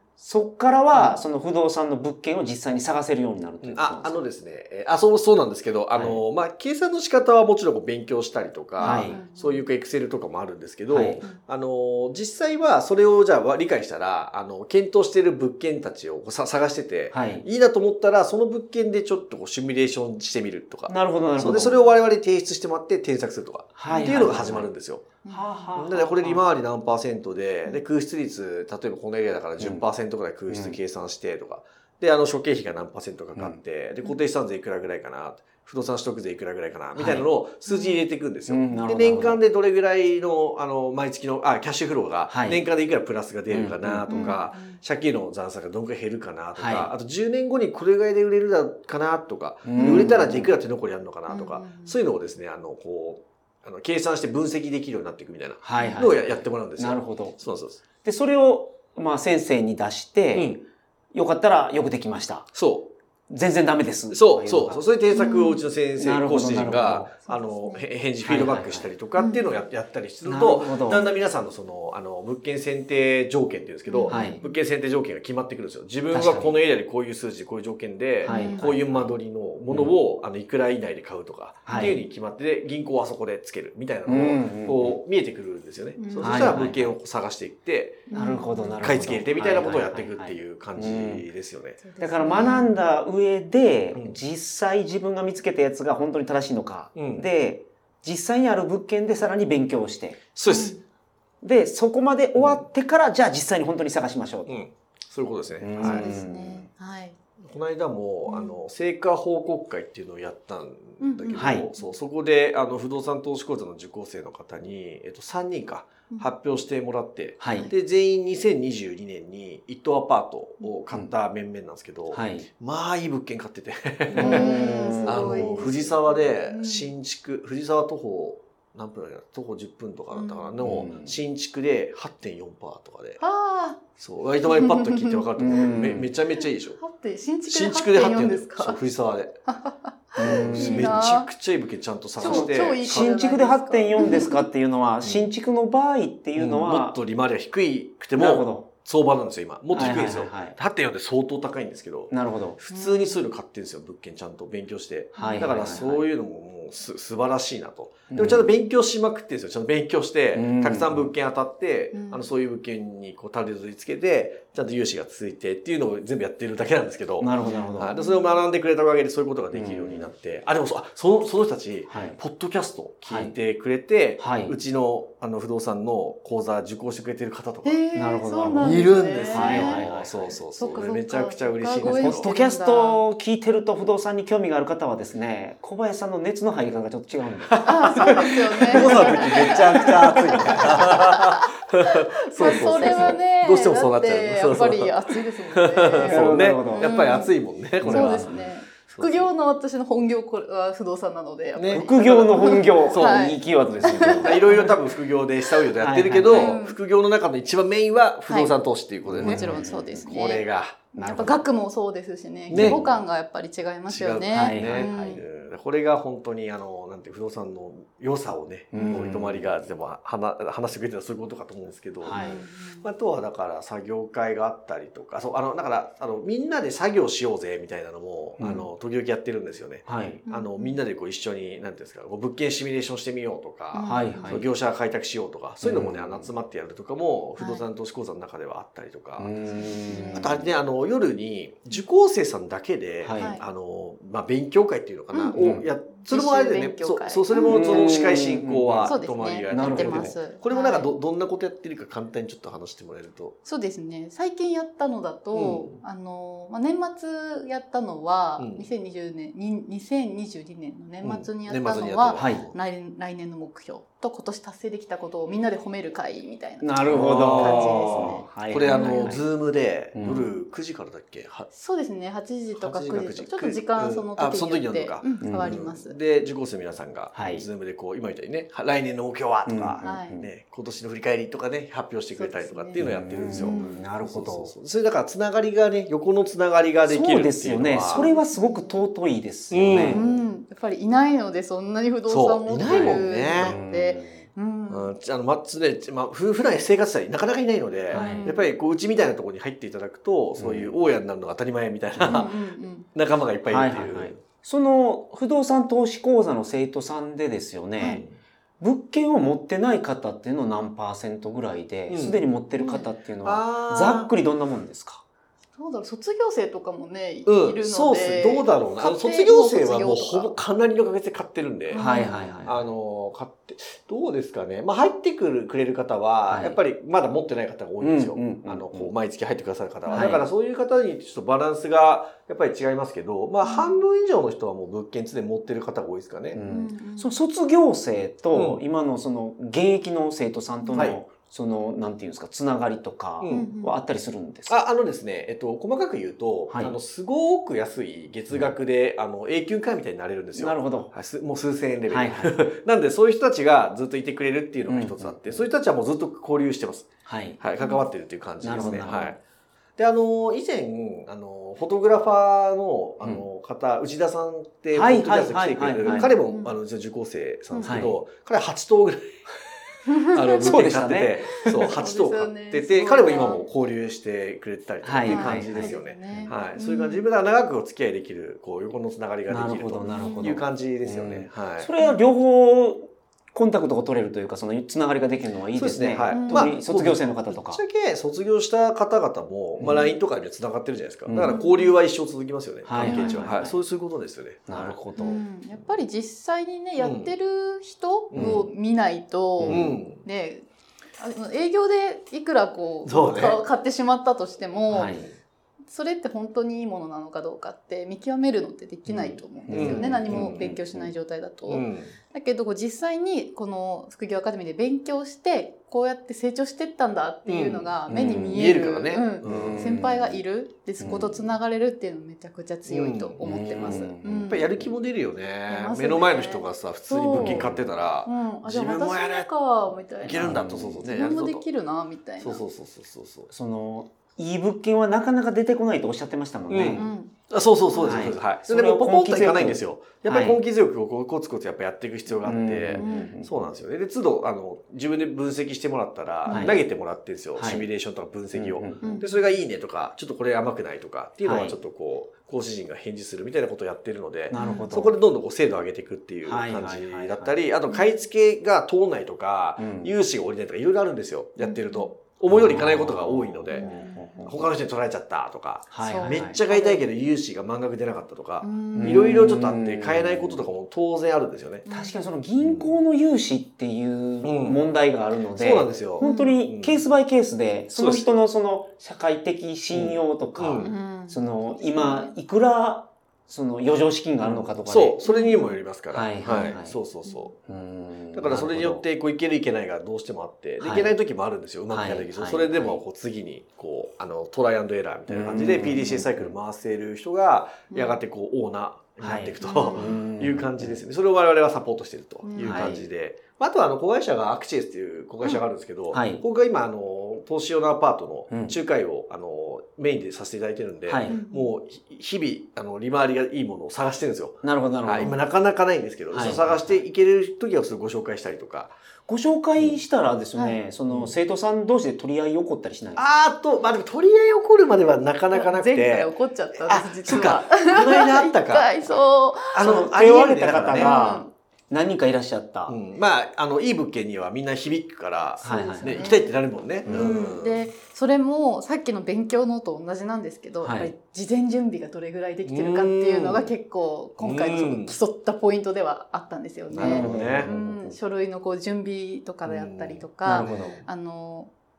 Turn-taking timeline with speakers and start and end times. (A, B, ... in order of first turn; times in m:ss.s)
0:00.2-0:04.1 A
0:00.9-0:01.2 B
0:03.6-0:25.2 C
0:05.9-0:06.2 A
0:08.8-0:09.6 B
0:08.8-0:09.2 A
0:10.9-0:11.2 A
0:17.1-0:17.4 A
0:20.9-0:21.7 A
0:23.8-0:24.7 A
0:23.9-0:24.2 B
0:25.2-0:25.7 B
0:25.3-0:26.4 A
0:25.8-0:57.8 C
0:30.5-0:30.8 A
0:36.9-0:37.3 A
0:37.7-0:38.0 B
0:38.5-0:39.4 A
0:42.3-0:42.6 A
0:43.5-0:44.4 A
0:44.1-0:44.8 B
0:46.6-0:46.9 A
0:49.6-0:50.5 A
0:49.8-0:50.2 B
0:51.3-0:52.0 B
0:55.6-0:57.4 A
0:55.8-0:56.1 B
0:58.0-1:00.6 A
1:00.3-1:00.6 C
1:01.1-1:02.5 A
1:02.6-1:02.9 C
1:03.3-1:04.8 A
1:04.1-1:28.2 C
1:05.1-1:05.6 B
1:06.0-1:07.1 A
1:07.2-1:07.8 B
1:08.2-1:08.9 A
1:09.2-1:09.6 B
1:10.2-1:11.1 A
1:13.9-1:14.4 B
1:14.1-1:14.4 A
1:16.1-1:16.6 A
1:18.2-1:18.6 B
1:18.3-1:19.1 A
1:19.7-1:19.9 A
1:21.7-1:22.0 A
1:21.7-1:22.0 B
1:24.1-1:25.0 A
1:26.0-1:26.5 B
1:26.2-1:26.9 A
1:28.1-1:28.8 B
1:28.1-1:31.2 A
1:28.8-1:32.7 C
1:31.8-1:32.7 B
1:32.0-1:40.2 A
1:33.9-1:34.2 C
1:37.0-1:37.2 C
1:40.3-1:40.8 C
1:40.5-1:40.8 B
1:41.4-1:44.6 A
1:42.4-1:42.7 C
1:44.5-1:46.1 C
1:45.6-1:46.7 A
1:45.8-1:47.2 B
1:47.4-2:13.2 C
1:48.3-1:48.6 B
1:51.0-1:51.9 B
1:51.4-1:51.7 A
1:57.4-1:57.7 A
2:02.1-2:02.5 A
2:04.1-2:05.7 A
2:04.1-2:06.9 B
2:10.1-2:10.6 B
2:10.6-2:11.2 A
2:13.2-2:13.8 B
2:14.0-2:16.8 C
2:14.4-2:15.2 B
2:15.4-2:16.1 A
2:16.8-2:18.8 B
2:17.5-2:19.4 C
2:19.5-2:21.3 B
2:20.2-2:21.0 A
2:20.2-2:23.2 C
2:22.2-2:24.4 B
2:22.2-2:27.0 A
2:24.0-2:24.3 C
2:25.0-2:25.3 C
2:26.4-2:57.8 C
2:28.2-2:28.7 A
2:29.7-2:30.6 A
2:32.1-2:32.6 A
2:32.7-2:33.2 B
2:35.2-2:36.0 A
2:35.2-2:35.5 B
2:38.1-2:38.5 A
2:40.3-2:41.1 A
2:41.9-2:42.3 B
2:47.2-2:47.9 A
2:48.0-2:48.4 B
2:49.5-2:50.1 A
2:51.9-2:52.2 A
2:53.1-2:53.3 A
2:54.2-2:54.6 A
2:57.6-2:59.8 B
2:57.9-3:00.9 A
2:58.6-3:02.3 C
3:00.6-3:03.0 B
3:01.8-3:11.1 A
3:07.5-3:18.4 C
3:07.6-3:17.3 B
3:16.0-3:17.2 A
3:17.8-3:18.4 A
3:17.8-3:24.7 B
3:18.9-3:19.3 C
3:21.6-3:23.3 C
3:21.7-3:24.7 A
3:24.0-3:31.3 C
3:25.8-3:26.6 A
3:26.3-3:26.8 B
3:28.3-3:28.5 B
3:29.1-3:30.0 A
3:29.2-3:35.2 B
3:31.0-3:31.4 A
3:32.5-3:32.8 C
3:32.5-3:33.0 A
3:33.9-3:59.3 C
3:34.3-3:35.2 A
3:38.7-3:39.4 A
3:38.7-3:39.2 B
3:42.0-3:42.4 A
3:42.1-3:42.8 B
3:48.4-3:48.7 A
3:49.8-3:50.2 A
3:50.3-3:50.8 B
3:53.7-3:54.4 B
3:53.8-3:54.5 A
3:55.6-3:56.3 A
3:57.4-3:57.6 B
3:59.2-4:00.4 A
3:59.6-4:00.3 B
4:00.1-4:13.4 C
4:03.0-4:03.3 A
4:03.2-4:03.4 B
4:05.3-4:05.6 A
4:06.0-4:08.0 B
4:07.4-4:09.0 A
4:08.8-4:10.9 B
4:09.5-4:10.2 A
4:13.4-4:29.2 B
4:15.3-4:15.8 C
4:18.4-4:18.7 C
4:21.0-4:22.6 C
4:22.2-4:22.4 A
4:26.6-4:29.2 A
4:26.9-4:31.5 C
4:29.9-4:30.3 A
4:31.5-4:36.0 B
4:32.6-4:48.1 C
4:35.2-4:35.5 A
4:37.1-4:37.4 A
4:39.4-4:40.3 A
4:39.8-4:40.2 B
4:42.1-4:43.8 B
4:42.8-4:44.5 A
4:46.9-4:50.1 A
4:47.9-4:48.7 B
4:49.5-4:50.2 C
4:49.8-4:54.9 B
4:52.1-4:53.6 C
4:52.6-4:54.3 A
4:54.7-5:02.3 C
4:57.9-4:58.3 A
4:57.9-4:58.5 B
5:00.4-5:00.7 A
5:02.0-5:02.3 A
5:02.1-5:02.9 B
5:02.9-5:04.2 C
5:03.5-5:08.0 A
5:07.8-5:08.2 C
5:08.6-5:15.0 A
5:11.9-5:12.3 C
5:12.6-5:12.8 B
5:13.2-5:14.1 C
5:15.6-5:20.3 B
5:17.3-5:21.8 C
5:21.7-5:22.2 B
5:21.8-5:22.6 A
5:22.4-5:36.4 C
5:26.3-5:26.6 A
5:27.8-5:28.9 A
5:29.9-5:30.3 A
5:33.4-5:33.8 B
5:36.3-5:44.6 A
5:36.4-5:37.1 B
5:38.3-5:38.6 C
5:40.6-5:40.9 B
5:43.2-5:43.5 C
5:43.3-5:43.8 B
5:44.5-5:59.2 C
5:46.5-5:46.8 A
5:50.3-5:50.9 A
5:51.9-5:52.4 A
5:54.7-5:55.4 A
5:57.0-5:57.4 A
5:57.6-5:57.8 B
5:58.4-5:59.2 A
5:59.8-6:09.5 C
6:04.7-6:06.1 A
6:05.8-6:06.5 B
6:07.5-6:07.8 B
6:07.6-6:08.0 A
6:09.9-6:10.5 B
6:10.1-6:21.7 C
6:10.4-6:11.7 A
6:11.5-6:13.4 B
6:14.8-6:16.3 A
6:15.1-6:17.1 B
6:19.3-6:27.6 A
6:19.9-6:20.3 B
6:25.6-6:34.8 C
6:26.1-6:26.5 B
6:29.6-6:29.8 A
6:31.1-6:31.4 A
6:31.2-6:31.8 B
6:32.7-6:33.6 A
6:32.8-6:33.3 B
6:34.5-6:35.2 A
6:35.0-6:40.4 B
6:36.8-6:37.1 C
6:38.1-6:38.4 C
6:38.2-6:38.5 A
6:39.4-6:39.7 A
6:39.5-6:40.0 C
6:41.0-6:44.9 B
6:42.8-6:43.4 C
6:44.7-6:45.1 A
6:45.7-7:04.5 B
6:48.9-6:50.5 C
6:49.5-6:50.9 A
6:51.5-6:51.9 C
6:57.3-6:57.7 C
6:57.9-6:58.5 A
6:58.3-6:59.9 C
6:59.2-7:00.2 A
7:00.8-7:01.2 A
7:02.7-7:03.2 C
7:03.2-7:04.6 A
7:04.0-7:09.3 C
7:05.5-7:07.5 B
7:07.2-7:07.7 A
7:08.1-7:10.3 B
7:10.0-7:11.4 C
7:10.2-7:10.8 A
7:10.8-7:12.4 B
7:12.2-7:13.3 C
7:13.3-7:16.9 A
7:16.5-7:43.7 C
7:16.7-7:17.1 B
7:17.7-7:18.1 B
7:17.8-7:20.4 A
7:22.2-7:23.3 A
7:22.8-7:23.1 B
7:26.2-7:26.6 B
7:26.3-7:26.6 A
7:27.3-7:27.7 A
7:28.3-7:28.9 A
7:28.8-7:29.2 B
7:31.2-7:31.6 A
7:34.3-7:34.9 A
7:34.4-7:34.9 B
7:36.2-7:37.4 A
7:39.6-7:39.9 A
7:41.4-7:41.9 B
7:42.3-7:44.4 A
7:43.5-7:44.1 B
7:44.2-7:51.7 C
7:45.7-7:46.4 A
7:45.8-7:46.8 B
7:48.4-7:49.2 B
7:48.8-7:50.4 A
7:51.7-7:52.0 B
7:51.7-8:05.0 A
7:52.4-7:52.8 C
7:54.2-7:54.6 C
7:55.4-7:56.8 C
7:56.0-7:56.3 B
7:57.8-7:58.1 C
7:59.7-8:00.7 C
8:00.6-8:02.1 B
8:04.2-8:07.4 C
8:05.0-8:05.6 B
8:05.9-8:06.8 A
8:07.5-8:08.8 A
8:08.1-8:38.8 C
8:10.6-8:10.9 A
8:11.7-8:12.8 A
8:15.1-8:16.3 A
8:17.7-8:18.0 B
8:19.0-8:20.8 A
8:19.4-8:19.9 B
8:22.2-8:22.6 B
8:22.4-8:22.9 A
8:25.9-8:26.2 A
8:28.3-8:28.6 A
8:30.9-8:31.2 A
8:31.1-8:31.5 B
8:34.4-8:35.2 A
8:36.1-8:36.8 A
8:39.1-8:43.1 A
8:40.9-8:41.2 C
8:43.0-8:48.8 C
8:45.3-8:49.9 B
8:47.0-8:47.3 A
8:49.5-8:51.0 C
8:49.6-8:52.8 A
8:50.8-8:51.3 B
8:52.7-8:57.6 C
8:55.4-8:56.0 A
8:55.4-8:56.2 B
8:56.9-9:11.5 B
9:00.6-9:00.9 A
9:02.4-9:03.5 C
9:04.2-9:04.9 C
9:06.7-9:07.5 C
9:06.8-9:08.0 A
9:09.4-9:10.8 C
9:10.3-9:10.8 A